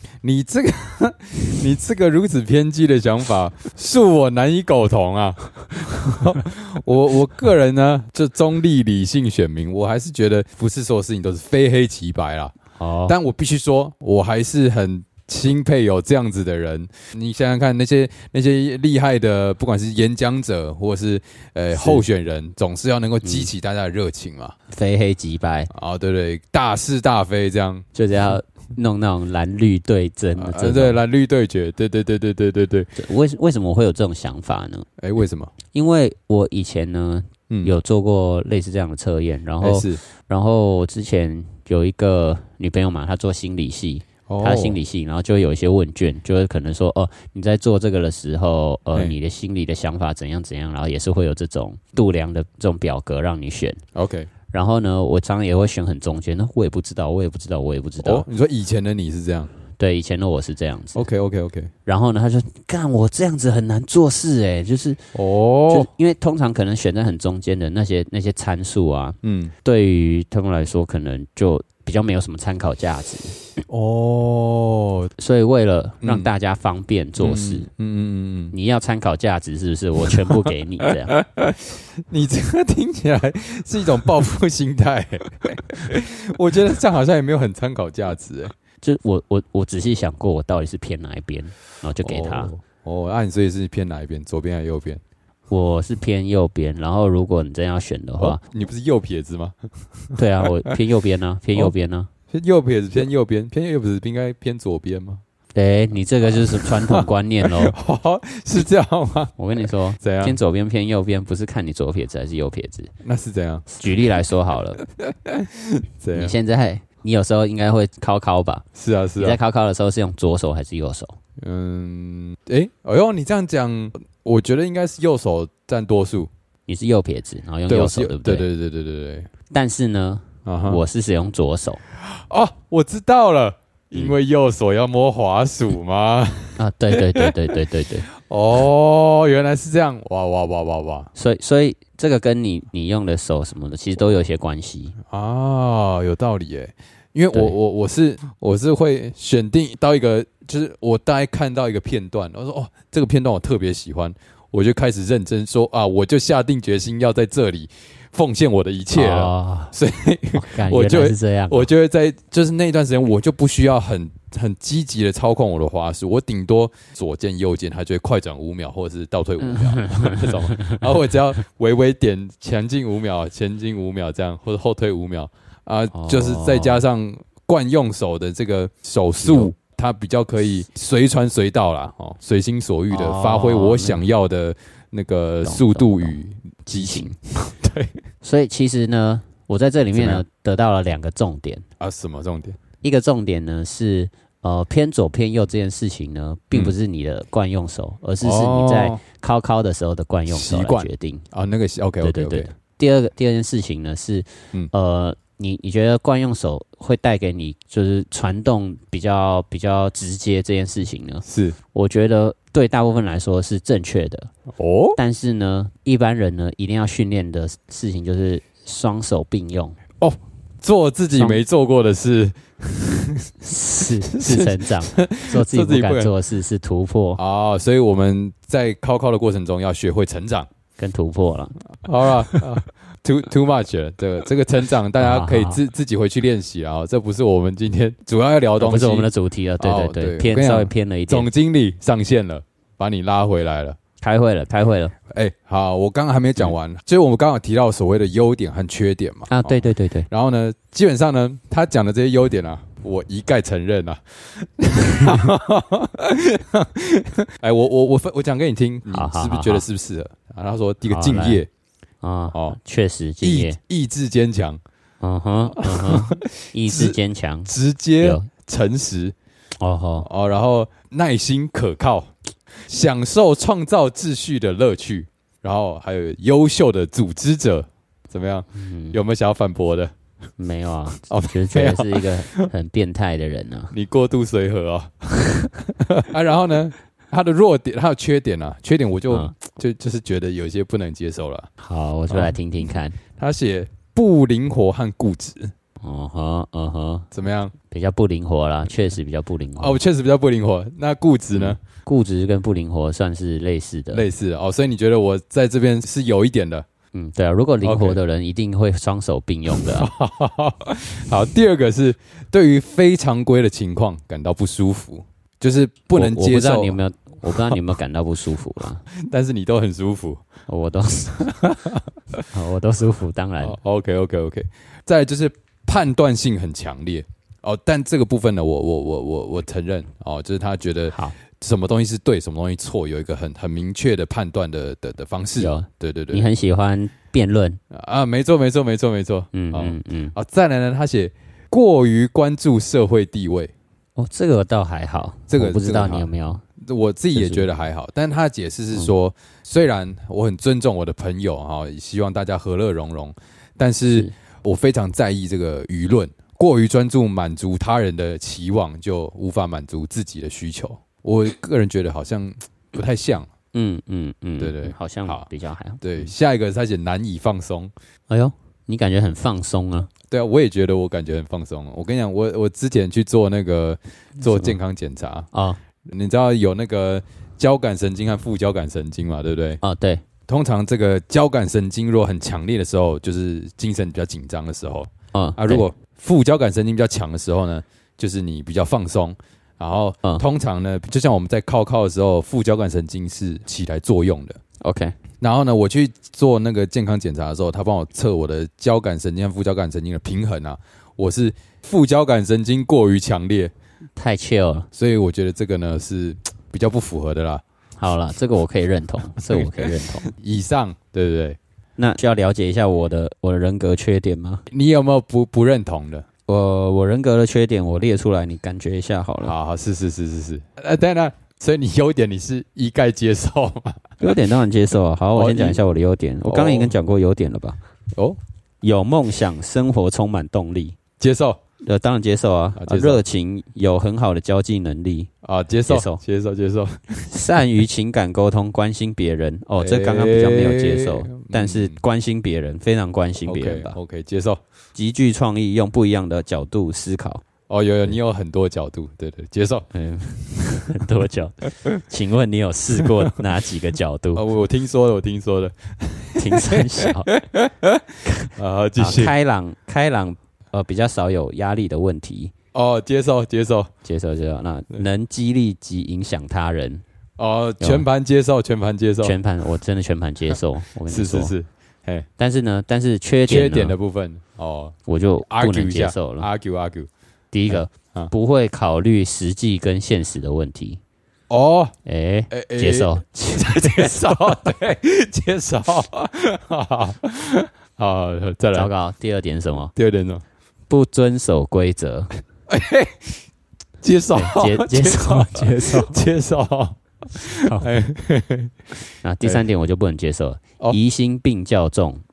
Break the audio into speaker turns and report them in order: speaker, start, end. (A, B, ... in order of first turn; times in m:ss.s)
0:00.2-0:12.6 A
0:12.8-0:13.2 B
0:13.1-0:24.6 A
0:21.7-0:22.0 B
0:23.2-0:23.5 B
0:24.7-0:25.7 B
0:25.7-0:27.9 A
0:28.0-0:31.0 B
0:30.4-0:32.9 A
0:33.0-0:34.9 B
0:35.0-0:35.5 A
0:35.7-0:53.8 B
0:39.6-0:40.0 A
0:44.3-0:44.8 A
0:54.0-0:54.3 A
0:54.5-0:58.2 B
0:58.0-0:59.5 A
0:59.8-1:01.0 B
1:01.0-1:01.7 A
1:01.9-1:05.0 B
1:05.1-1:05.9 A
1:05.7-1:13.4 B
1:09.2-1:09.5 A
1:13.7-1:15.1 A
1:15.2-1:17.7 B
1:16.0-1:16.3 A
1:17.2-1:18.5 A
1:18.5-1:21.2 B
1:20.1-1:20.4 A
1:20.9-1:28.5 A
1:28.8-1:32.5 B
1:32.0-1:35.0 A
1:35.5-1:38.4 B
1:38.2-1:40.5 A
1:40.2-1:42.1 B
1:42.3-1:45.2 A
1:45.5-1:47.8 B
1:46.2-1:49.4 A
1:49.4-1:52.9 B
1:50.0-1:50.4 A
1:53.0-1:53.7 A
1:53.8-1:54.8 B
1:55.0-1:56.4 A
1:56.1-1:58.7 B
1:58.8-1:59.4 A
1:59.2-2:01.2 B
2:01.4-2:06.3 A
2:06.7-2:08.5 B
2:07.7-2:09.3 A
2:09.5-2:11.8 B
2:10.5-2:10.8 A
2:12.0-2:17.3 A
2:16.6-2:18.1 B
2:18.2-2:21.1 A
2:21.2-2:25.0 B
2:25.1-3:07.9 A
2:38.9-2:39.7 B
2:40.3-2:41.7 B
2:49.4-2:50.8 B
2:55.9-2:56.8 B
2:59.2-2:59.5 B
3:02.9-3:04.0 B
3:05.4-3:07.2 B
3:08.2-3:11.6 B
3:09.9-3:10.2 A
3:11.8-3:12.6 A
3:12.8-3:21.2 B
3:18.2-3:19.0 A
3:20.3-3:22.5 A
3:22.0-3:34.3 B
3:31.2-3:31.6 A
3:34.6-3:35.0 A
3:35.0-3:39.8 B
3:40.0-3:43.3 A
3:41.1-3:41.4 B
3:43.4-3:47.2 B
3:44.1-3:46.1 A
3:47.2-3:50.5 A
3:50.8-3:52.4 B
3:51.8-3:59.1 A
3:55.0-3:55.6 B
3:58.6-4:01.3 B
3:59.6-4:03.8 A
4:04.0-4:04.9 B
4:05.1-4:21.5 A
4:09.3-4:10.1 B
4:18.9-4:19.6 B
4:20.9-4:21.4 B
4:22.0-4:23.6 B
4:22.3-4:22.6 A
4:23.2-4:24.6 A
4:25.0-4:28.3 B
4:25.5-4:29.2 A
4:29.6-4:30.1 B
4:30.0-4:39.9 A
4:38.5-4:39.0 B
4:40.4-4:43.7 B
4:41.1-4:42.5 A
4:43.7-4:51.5 A
4:51.6-4:53.0 B
4:52.1-4:52.4 A
4:53.1-4:55.5 A
4:55.8-4:57.1 B
4:57.1-4:57.5 A
4:57.6-4:59.8 B
4:59.6-5:01.6 A
5:01.3-5:04.0 B
5:03.9-5:06.7 A
5:06.9-5:09.9 B
5:07.6-5:08.0 A
5:09.5-5:16.8 A
5:16.0-5:18.8 B
5:17.3-5:17.6 A
5:18.9-5:20.2 A
5:20.5-5:21.4 B
5:21.3-5:22.2 A
5:22.3-5:23.6 B
5:23.4-5:36.3 A
5:30.9-5:31.2 B
5:35.4-5:37.6 B
5:37.7-5:43.5 A
5:39.3-5:40.2 B
5:44.0-5:46.4 B
5:45.3-5:46.1 A
5:46.6-6:03.3 A
5:47.1-5:47.5 B
6:03.5-6:06.1 B
6:04.4-6:05.3 A
6:05.8-6:07.7 A
6:08.1-6:09.9 B
6:10.1-6:15.3 A
6:14.3-6:14.6 B
6:15.3-6:15.6 B
6:15.9-6:19.6 A
6:19.6-6:20.0 B
6:20.3-6:34.4 A
6:25.1-6:25.6 B
6:34.6-6:35.0 B
6:35.2-6:43.5 A
6:44.0-6:44.7 B
6:44.7-6:47.4 A
6:47.8-6:50.1 B
6:49.2-6:51.4 A
6:51.8-6:54.4 B
6:54.5-6:56.1 A
6:56.3-6:59.3 B
6:59.2-7:04.0 A
7:04.0-7:07.6 B
7:05.2-7:05.6 A
7:06.2-7:06.7 A
7:08.6-7:10.8 B
7:11.0-7:11.4 A
7:11.6-7:15.1 B
7:12.6-7:13.0 A
7:15.2-7:17.1 A
7:15.7-7:16.0 B
7:17.1-7:23.8 B
7:19.6-7:21.8 A
7:23.3-7:24.4 A
7:24.8-7:27.2 B
7:27.5-7:29.7 A
7:29.7-7:34.2 B
7:32.8-7:33.1 A
7:34.2-7:39.1 A
7:36.2-7:37.1 B
7:38.1-7:42.3 B
7:42.5-7:43.7 A
7:43.8-7:46.8 B
7:47.2-7:49.2 A
7:47.6-7:47.9 B
7:49.0-7:51.3 B
7:50.3-7:52.1 A
7:52.2-7:53.8 B
7:53.3-7:56.9 A
7:54.9-7:56.3 B
7:57.3-8:00.8 B
7:57.5-7:58.1 A
8:01.3-8:01.7 A
8:01.9-8:04.4 B
8:02.3-8:08.7 A
8:08.5-8:09.7 B
8:09.8-8:10.2 A
8:10.7-8:12.1 B
8:12.5-8:13.2 A
8:13.8-8:18.5 A
8:14.1-8:16.0 B
8:17.4-8:17.8 B
8:19.0-8:22.0 B